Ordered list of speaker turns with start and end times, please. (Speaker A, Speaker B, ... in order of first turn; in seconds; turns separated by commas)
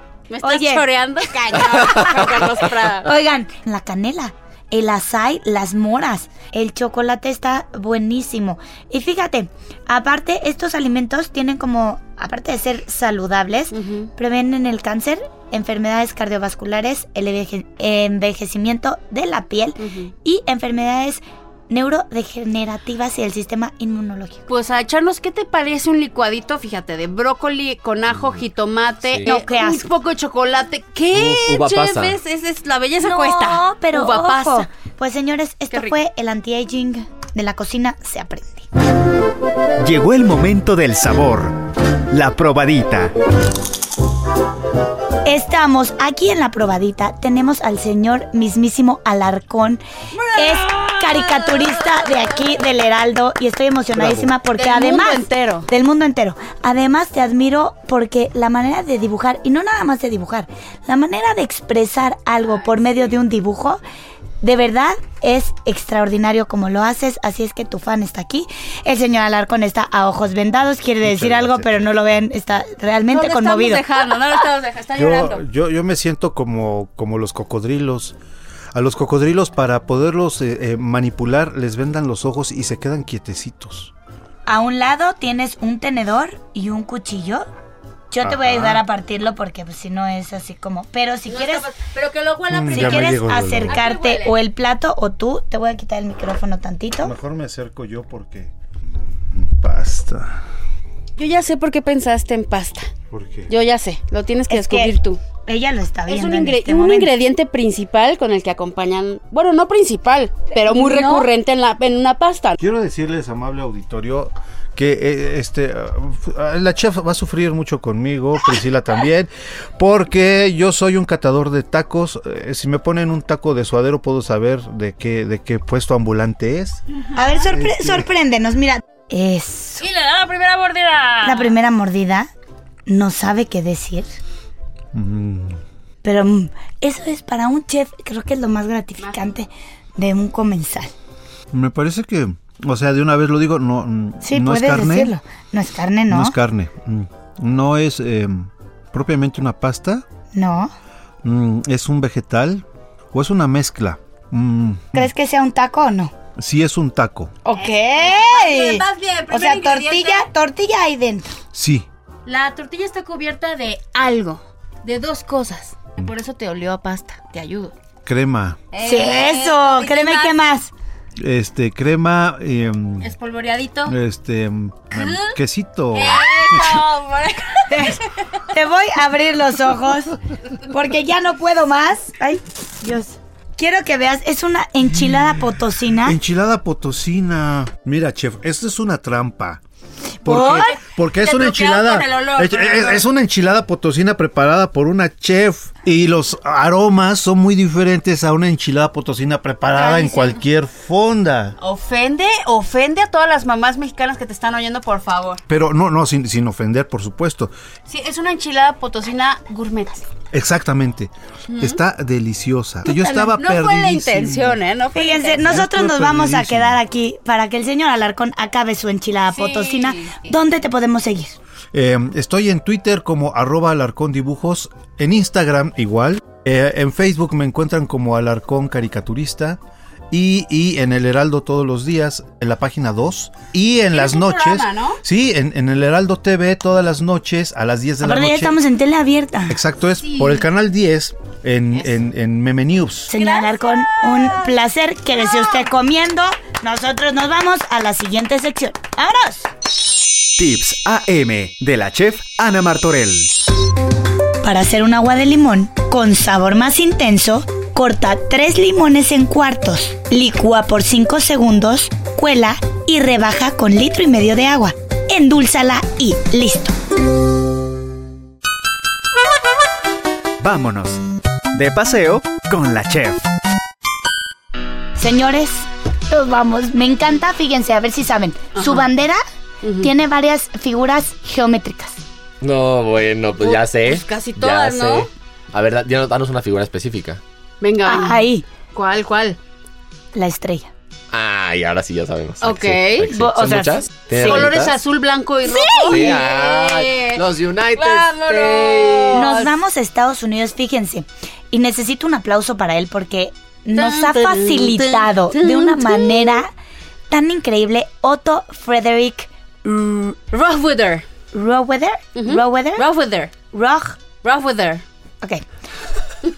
Speaker A: 0.3-3.1, Speaker B: 0.4-0.9, Speaker B: 3.0-24.4, Speaker A: 13.7-14.1, Speaker A: 19.8-20.1, Speaker A: 24.5-34.7, Speaker C: 28.1-28.4, Speaker C: 29.0-29.3, Speaker B: 29.3-29.9, Speaker C: 31.1-32.2, Speaker B: 33.0-38.7, Speaker D: 39.8-41.6, Speaker D: 42.1-43.1, Speaker B: 45.2-49.8, Speaker A: 50.2-52.2, Speaker B: 50.3-63.8, Speaker A: 54.6-55.7, Speaker B: 64.4-73.8, Speaker E: 71.0-71.8, Speaker A: 73.1-75.4, Speaker E: 75.0-78.2, Speaker E: 78.7-83.9, Speaker B: 84.5-87.5, Speaker B: 88.1-91.7, Speaker E: 88.2-88.8, Speaker A: 91.3-94.4, Speaker E: 92.5-93.8, Speaker B: 92.7-97.1, Speaker E: 97.0-98.5, Speaker E: 99.3-100.4, Speaker A: 101.2-102.9, Speaker E: 103.1-103.5, Speaker A: 103.5-105.2, Speaker B: 104.5-105.0, Speaker B: 105.5-107.1, Speaker A: 106.1-112.6, Speaker B: 110.5-111.3, Speaker E: 112.6-126.8, Speaker B: 127.2-129.9, Speaker E: 127.4-128.1, Speaker A: 129.8-131.6, Speaker B: 131.2-132.3, Speaker B: 132.9-134.1, Speaker E: 134.9-135.6, Speaker B: 136.0-140.9, Speaker E: 141.5-145.1, Speaker B: 144.2-146.4, Speaker E: 146.1-150.0, Speaker B: 150.3-150.7, Speaker E: 151.2-155.1, Speaker B: 154.9-156.1, Speaker E: 156.4-157.3, Speaker A: 157.5-160.3, Speaker B: 157.5-161.3, Speaker E: 161.5-161.9, Speaker A: 162.3-167.7, Speaker E: 168.1-168.6, Speaker A: 168.7-170.4, Speaker B: 168.8-170.7, Speaker E: 171.2-173.1, Speaker A: 173.0-173.9, Speaker E: 173.9-176.8, Speaker A: 174.9-175.3, Speaker A: 175.9-178.0, Speaker B: 177.7-180.2, Speaker B: 180.7-186.2, Speaker E: 186.1-189.6, Speaker B: 190.2-190.8, Speaker E: 190.2-201.6, Speaker A: 191.2-193.1, Speaker A: 199.7-200.4, Speaker A: 201.6-205.4, Speaker E: 205.5-207.5, Speaker A: 207.9-210.1, Speaker E: 210.3-214.6, Speaker A: 211.5-211.8, Speaker B: 212.9-213.3, Speaker A: 213.0-215.6, Speaker B: 214.9-221.4, Speaker E: 215.4-216.8, Speaker A: 219.3-220.3, Speaker E: 221.7-229.6, Speaker E: 230.1-238.6, Speaker A: 233.9-235.0, Speaker B: 238.0-239.6, Speaker E: 239.5-243.1, Speaker A: 240.0-240.4, Speaker B: 243.1-249.5, Speaker A: 243.2-244.5, Speaker A: 245.2-245.6, Speaker D: 250.4-253.3, Speaker B: 254.4-266.7, Speaker D: 270.4-271.0, Speaker D: 271.5-273.3, Speaker B: 275.0-279.2, Speaker A: 278.6-278.9, Speaker A: 279.6-279.9, Speaker B: 279.8-282.0, Speaker C: 282.4-287.2, Speaker A: 283.4-285.1, Speaker A: 287.6-289.4, Speaker B: 287.9-288.4, Speaker B: 290.1-290.7, Speaker C: 291.1-294.8, Speaker A: 292.4-293.1, Speaker B: 293.1-294.5, Speaker A: 294.2-299.5, Speaker B: 295.5-296.1, Speaker C: 295.9-299.3, Speaker B: 299.1-306.5, Speaker A: 303.8-306.4, Speaker B: 307.1-310.2, Speaker A: 310.3-311.1, Speaker B: 311.3-312.9, Speaker A: 312.2-313.3, Speaker B: 313.5-314.0, Speaker A: 314.2-314.8